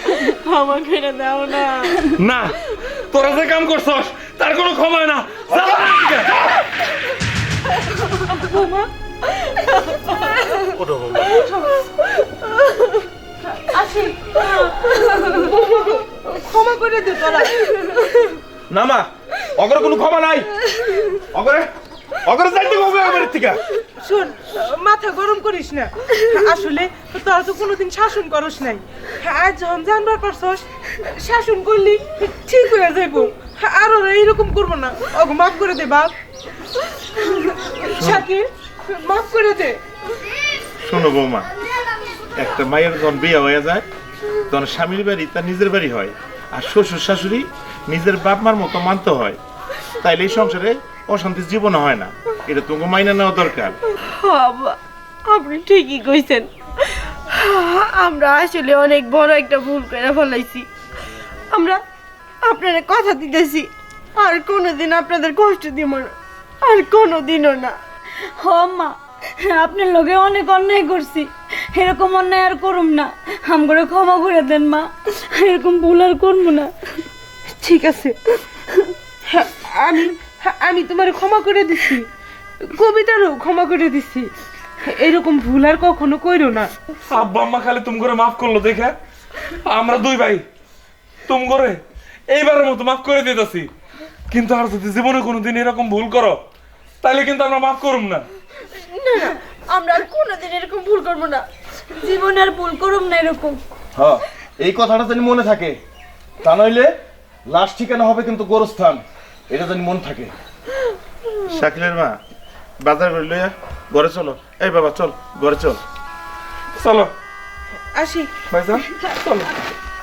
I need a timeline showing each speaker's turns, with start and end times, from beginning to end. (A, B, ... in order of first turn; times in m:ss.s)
0:00.4-0:01.9 A
0:02.2-0:06.6 B
0:08.4-0:08.9 C
0:10.8-0:11.4 D
0:11.3-0:11.7 C
0:13.7-0:18.0 C
0:18.7-0:20.5 E
0:21.3-0:21.7 E
0:22.2-0:23.6 E
0:24.0-0:36.1 C
0:37.5-0:39.8 C
0:38.0-0:38.3 D
0:40.8-0:41.5 D
0:42.4-0:43.9 D
0:44.5-0:49.4 D
0:50.0-0:53.8 D
0:54.2-0:56.5 A
0:57.3-1:00.7 A
1:01.5-1:01.8 A
1:02.4-1:07.8 A
1:08.4-1:16.7 F
1:17.6-1:18.2 C
1:19.3-1:22.1 C
1:22.8-1:24.3 C
1:24.8-1:26.7 C
1:27.1-1:29.0 B
1:29.7-1:30.4 B
1:31.3-1:33.7 B
1:34.3-1:36.4 B
1:37.0-1:38.3 B
1:38.9-1:41.5 A
1:42.0-1:43.6 F
1:44.0-1:45.8 E
1:46.4-1:46.9 E
1:47.5-1:50.3 E
1:51.4-1:52.2 D
1:52.8-1:55.8 D
1:56.8-1:57.1 B
1:58.0-1:58.3 C
1:58.5-1:59.5 B